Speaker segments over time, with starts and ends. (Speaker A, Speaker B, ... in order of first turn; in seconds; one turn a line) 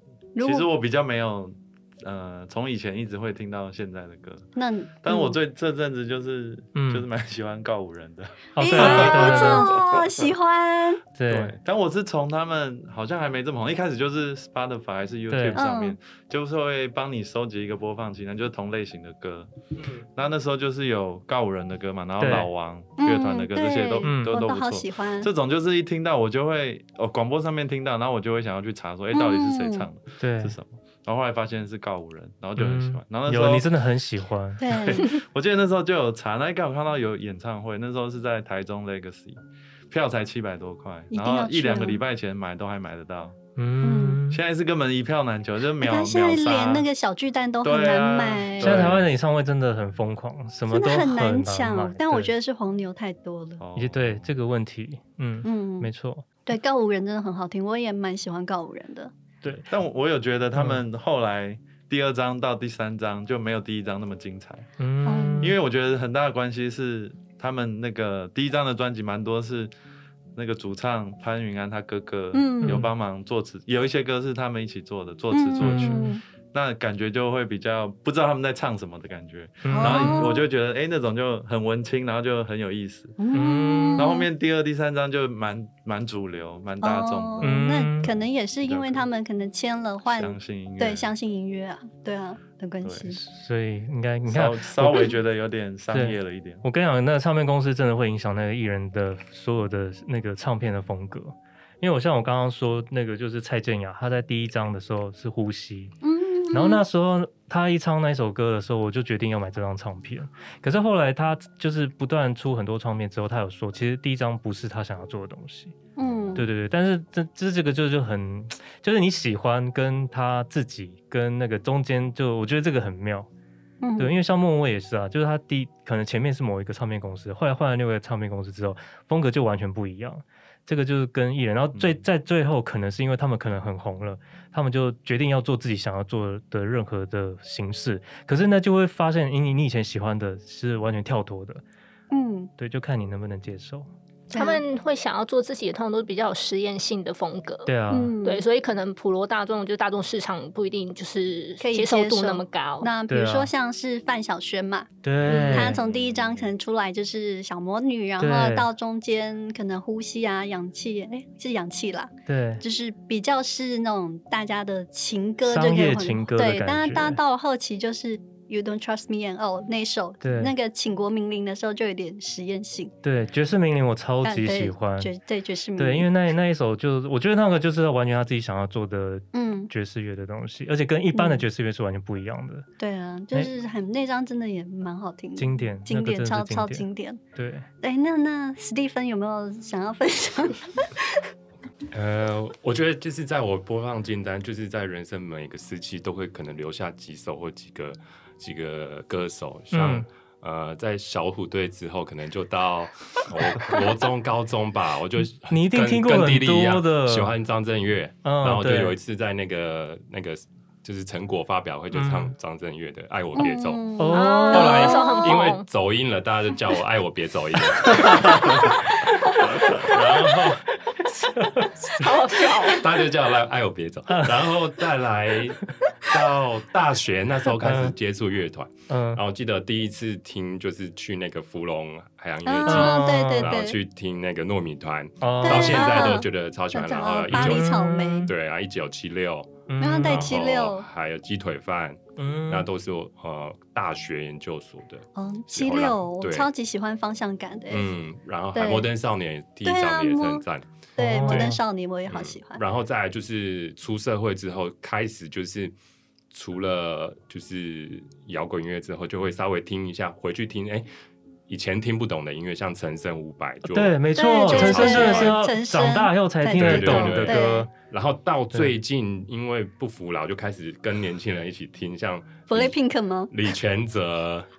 Speaker A: 0.3-0.7
Speaker B: 0.4-4.5
Speaker A: 4.6-5.4
Speaker B: 5.0-10.2
Speaker C: 6.8-7.1
Speaker C: 8.6-9.8
Speaker A: 8.6-11.0
Speaker C: 11.2-11.6
Speaker B: 11.3-33.7
Speaker C: 15.3-15.6
Speaker A: 15.5-16.0
Speaker C: 22.2-22.5
Speaker A: 23.0-25.3
Speaker C: 24.0-24.4
Speaker A: 29.1-29.9
Speaker C: 30.2-30.6
Speaker C: 32.6-35.1
Speaker A: 34.6-35.1
Speaker B: 35.0-39.4
Speaker B: 39.9-43.4
Speaker A: 41.1-42.0
Speaker C: 43.6-44.4
Speaker A: 43.8-44.2
Speaker B: 44.3-46.9
Speaker A: 45.8-49.0
Speaker B: 47.6-49.1
Speaker C: 48.6-52.3
Speaker A: 50.7-53.6
Speaker B: 53.6-54.3
Speaker C: 53.8-56.2
Speaker A: 55.4-55.9
Speaker A: 56.5-59.1
Speaker C: 59.4-59.7
Speaker B: 59.7-64.7
Speaker C: 60.5-60.8
Speaker C: 64.8-65.5
Speaker A: 65.0-65.6
Speaker B: 65.4-69.7
Speaker B: 70.4-83.2
Speaker A: 72.3-72.8
Speaker C: 72.6-72.9
Speaker A: 75.3-76.2
Speaker C: 75.6-76.1
Speaker C: 79.6-80.3
Speaker A: 79.7-80.5
Speaker A: 83.2-84.3
Speaker C: 83.3-84.1
Speaker B: 84.0-87.6
Speaker A: 86.8-93.2
Speaker C: 87.4-88.1
Speaker B: 88.6-89.1
Speaker B: 90.1-91.1
Speaker B: 92.8-93.1
Speaker C: 93.2-95.1
Speaker B: 94.2-96.6
Speaker C: 95.9-105.9
Speaker A: 106.0-106.8
Speaker C: 106.5-115.7
Speaker A: 116.0-116.5
Speaker C: 116.4-123.3
Speaker A: 123.8-124.1
Speaker C: 124.0-141.6
Speaker B: 131.8-132.0
Speaker A: 142.1-142.5
Speaker C: 142.6-143.9
Speaker D: 144.3-147.7
Speaker A: 144.3-144.6
Speaker C: 147.7-148.2
Speaker A: 147.9-148.5
Speaker D: 148.2-152.9
Speaker A: 151.6-172.9
Speaker C: 153.1-153.5
Speaker C: 155.0-155.8
Speaker D: 155.3-155.7
Speaker B: 155.7-156.5
Speaker C: 158.2-158.7
Speaker C: 162.3-162.6
Speaker C: 165.4-167.2
Speaker C: 170.2-170.5
Speaker C: 173.0-175.1
Speaker A: 174.2-176.1
Speaker C: 175.8-182.7
Speaker A: 179.3-179.7
Speaker A: 181.1-181.5
Speaker A: 182.8-187.2
Speaker C: 185.4-187.7
Speaker A: 187.8-191.2
Speaker E: 191.9-213.8
Speaker C: 199.7-200.1
Speaker C: 205.5-207.3
Speaker C: 208.2-209.0
Speaker C: 211.9-212.3
Speaker A: 213.3-215.3
Speaker C: 214.0-215.0
Speaker D: 214.1-215.7
Speaker E: 214.5-218.8
Speaker E: 219.4-220.7
Speaker C: 221.2-222.0
Speaker D: 221.9-222.8
Speaker E: 222.7-246.5
Speaker C: 224.1-224.4
Speaker C: 227.6-227.9
Speaker C: 228.9-229.2
Speaker A: 232.4-233.8
Speaker C: 232.7-233.6
Speaker C: 235.2-236.2
Speaker A: 235.4-238.3
Speaker C: 237.3-238.3
Speaker C: 239.7-240.3
Speaker A: 239.8-240.9
Speaker C: 242.2-242.7
Speaker A: 245.2-247.9
Speaker E: 247.7-250.7
Speaker A: 248.5-248.9
Speaker A: 249.6-250.5
Speaker C: 251.0-251.6
Speaker A: 251.0-252.6
Speaker E: 252.1-255.8
Speaker E: 256.3-260.9
Speaker E: 261.5-265.4
Speaker C: 263.7-267.7
Speaker A: 264.1-267.7
Speaker E: 266.5-272.8
Speaker A: 272.5-273.3
Speaker E: 273.3-274.5